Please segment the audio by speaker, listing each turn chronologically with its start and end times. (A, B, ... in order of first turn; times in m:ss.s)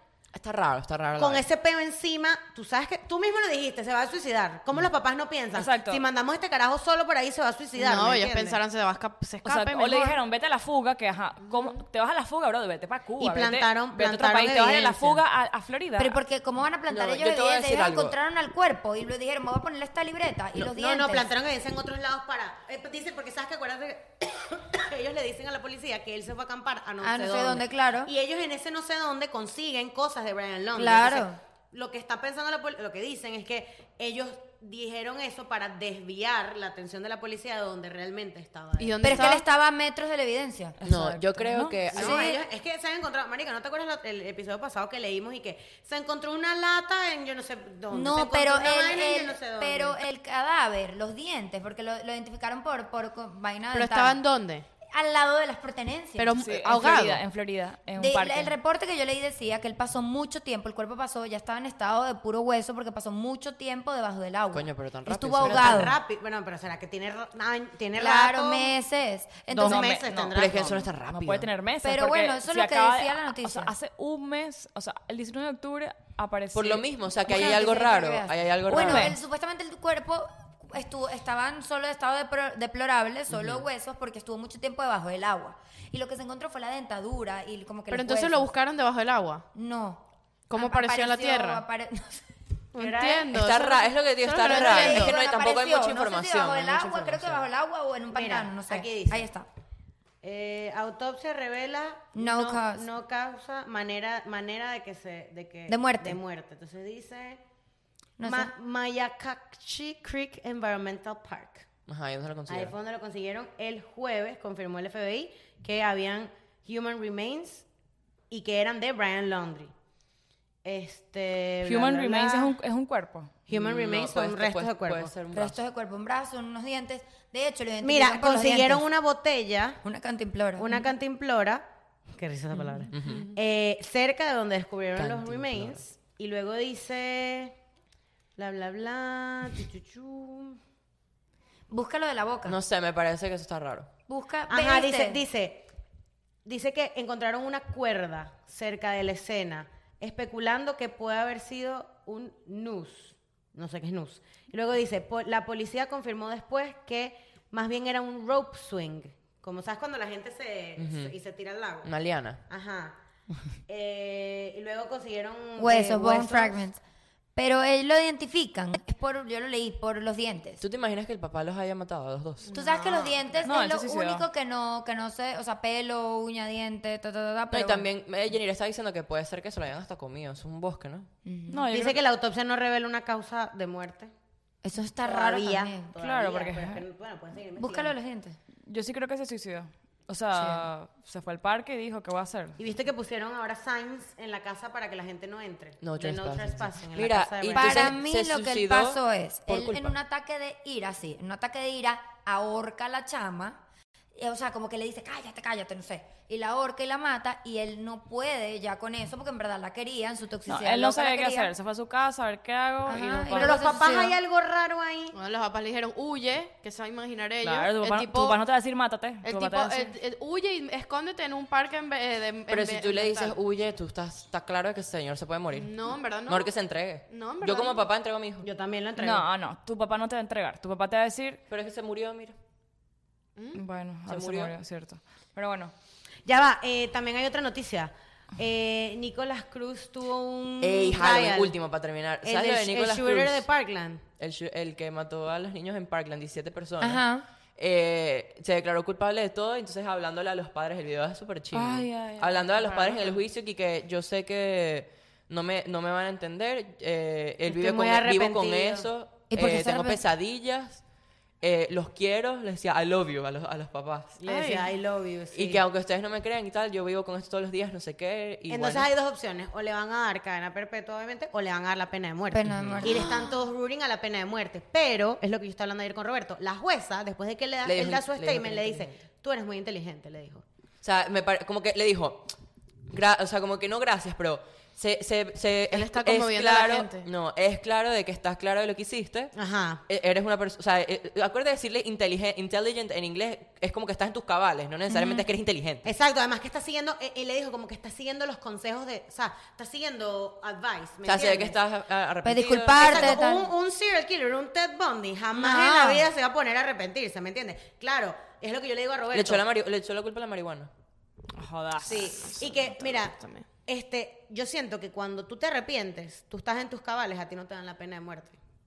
0:00.3-0:01.4 A
0:01.2-0:08.6 B
0:05.5-0:06.0 C
0:07.8-0:10.2 D
0:09.4-0:16.2 C
0:13.2-0:15.2 B
0:16.0-0:21.3 E
0:16.9-0:18.1 A
0:20.6-0:39.4 B
0:27.0-0:28.1 E
0:30.8-0:31.4 E
0:38.8-0:39.4 D
0:39.0-0:40.8 E
0:40.8-0:41.8 C
0:40.8-0:42.2 A
0:41.9-0:50.0 B
0:41.9-0:42.4 E
0:47.9-0:54.2 E
0:53.7-0:54.6 D
0:54.9-0:56.3 E
0:56.2-0:57.2 D
0:56.4-0:58.5 C
0:58.0-1:06.0 E
1:04.5-1:06.0 A
1:05.1-1:08.8 B
1:08.0-1:09.9 E
1:09.5-1:10.8 B
1:09.5-1:16.8 C
1:10.3-1:11.5 A
1:11.8-1:13.7 E
1:16.5-1:19.2 A
1:17.2-1:28.5 E
1:18.8-1:19.1 C
1:23.3-1:23.6 A
1:27.9-1:29.5 D
1:29.5-1:32.2 E
1:30.5-1:31.6 D
1:32.7-1:35.1 D
1:32.8-1:33.3 B
1:33.3-1:37.5 A
1:34.4-1:39.5 E
1:34.8-1:35.1 B
1:38.1-1:39.3 B
1:40.2-1:47.4 B
1:42.2-1:42.8 E
1:45.7-1:46.2 E
1:48.2-1:48.5 E
1:48.2-1:51.7 B
1:51.9-1:52.7 A
1:52.5-1:57.6 B
1:58.3-1:59.7 B
2:00.6-2:02.5 B
2:01.6-2:03.3 C
2:03.5-2:05.2 B
2:03.5-2:05.6 A
2:05.3-2:08.8 E
2:07.8-2:09.8 B
2:09.8-2:10.8 E
2:10.6-2:17.6 B
2:12.9-2:13.3 A
2:15.0-2:15.8 A
2:18.4-2:20.6 B
2:21.7-2:22.6 E
2:22.4-2:23.9 A
2:24.1-2:25.2 E
2:24.5-2:25.7 B
2:26.4-2:41.9 B
2:40.8-2:41.1 A
2:41.8-2:42.4 A
2:42.5-2:43.0 B
2:43.7-2:46.6 B
2:45.6-2:46.8 E
2:47.4-2:50.6 E
2:50.6-2:52.5 A
2:52.5-2:53.6 B
2:52.5-2:57.8 E
2:53.4-2:54.2 C
2:57.5-3:01.1 A
3:01.2-3:01.6 E
3:01.5-3:02.0 C
3:01.7-3:04.1 B
3:04.6-3:05.9 E
3:05.0-3:07.9 B
3:06.0-3:06.8 C
3:07.6-3:08.4 E
3:08.6-3:12.6 C
3:10.3-3:10.7 E
3:12.6-3:17.9 B
3:15.8-3:20.0 A
3:17.5-3:23.6 E
3:24.1-3:31.5 E
3:30.5-3:33.7 C
3:32.9-3:34.2 E
3:33.3-3:35.2 B
3:35.1-3:38.4 D
3:37.4-3:39.9 C
3:39.2-3:43.4 D
3:42.5-3:48.4 A
3:45.6-3:46.5 D
3:47.1-3:47.9 D
3:48.4-3:49.3 B
3:49.0-3:51.4 C
3:51.5-3:52.4 A
3:53.5-3:55.7 C
3:54.1-3:54.5 A
3:56.2-4:01.5 B
4:00.6-4:03.5 A
4:02.2-4:04.0 B
4:04.2-4:07.0 A
4:06.8-4:07.2 E
4:07.6-4:20.8 A
4:11.5-4:13.1 C
4:17.5-4:18.9 B
4:19.3-4:20.0 E
4:21.4-4:24.2 A
4:24.2-4:25.6 B
4:24.3-4:24.6 D
4:25.3-4:28.9 A
4:28.5-4:40.4 B
4:32.3-4:33.2 E
4:32.5-4:33.0 A
4:37.6-4:39.0 A
4:40.8-4:42.4 A
4:42.9-4:49.3 A
4:45.7-4:47.1 D
4:49.3-4:49.8 B
4:49.9-4:55.9 A
4:54.9-4:55.2 E
4:55.8-5:01.6 B
5:01.0-5:03.2 A
5:02.2-5:03.5 E
5:02.7-5:09.4 B
5:05.4-5:06.1 E
5:09.1-5:10.7 A
5:11.4-5:12.4 C
5:11.8-5:18.4 B
5:12.1-5:13.5 D